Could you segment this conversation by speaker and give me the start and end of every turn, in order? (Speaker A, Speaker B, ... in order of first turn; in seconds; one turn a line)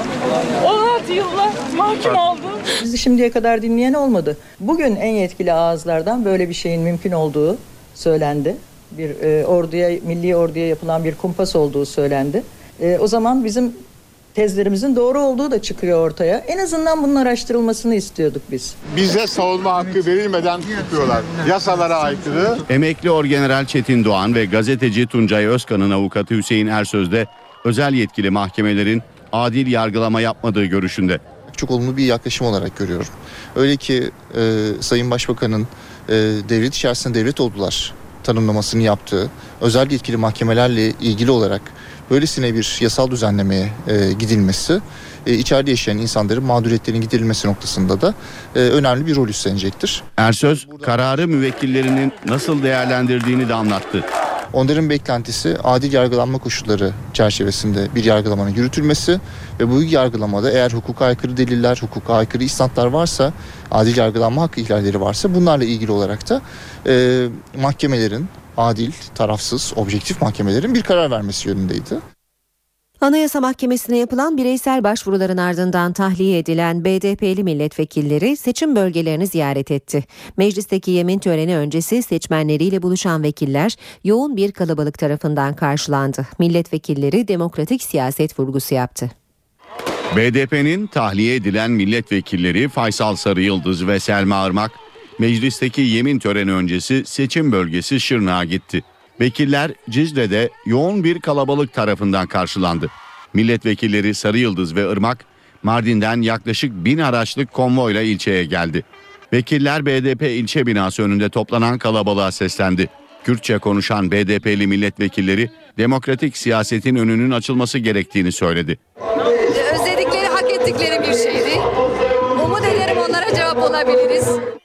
Speaker A: 2.8-13.8
Speaker A: 14.3-18.8
Speaker B: 18.9-22.6
Speaker C: 22.7-31.2
Speaker D: 31.5-50.0
Speaker C: 50.2-54.0
Speaker D: 54.5-72.0
Speaker E: 73.0-89.1
Speaker C: 90.1-118.8
Speaker F: 119.3-121.6
Speaker F: 122.3-124.4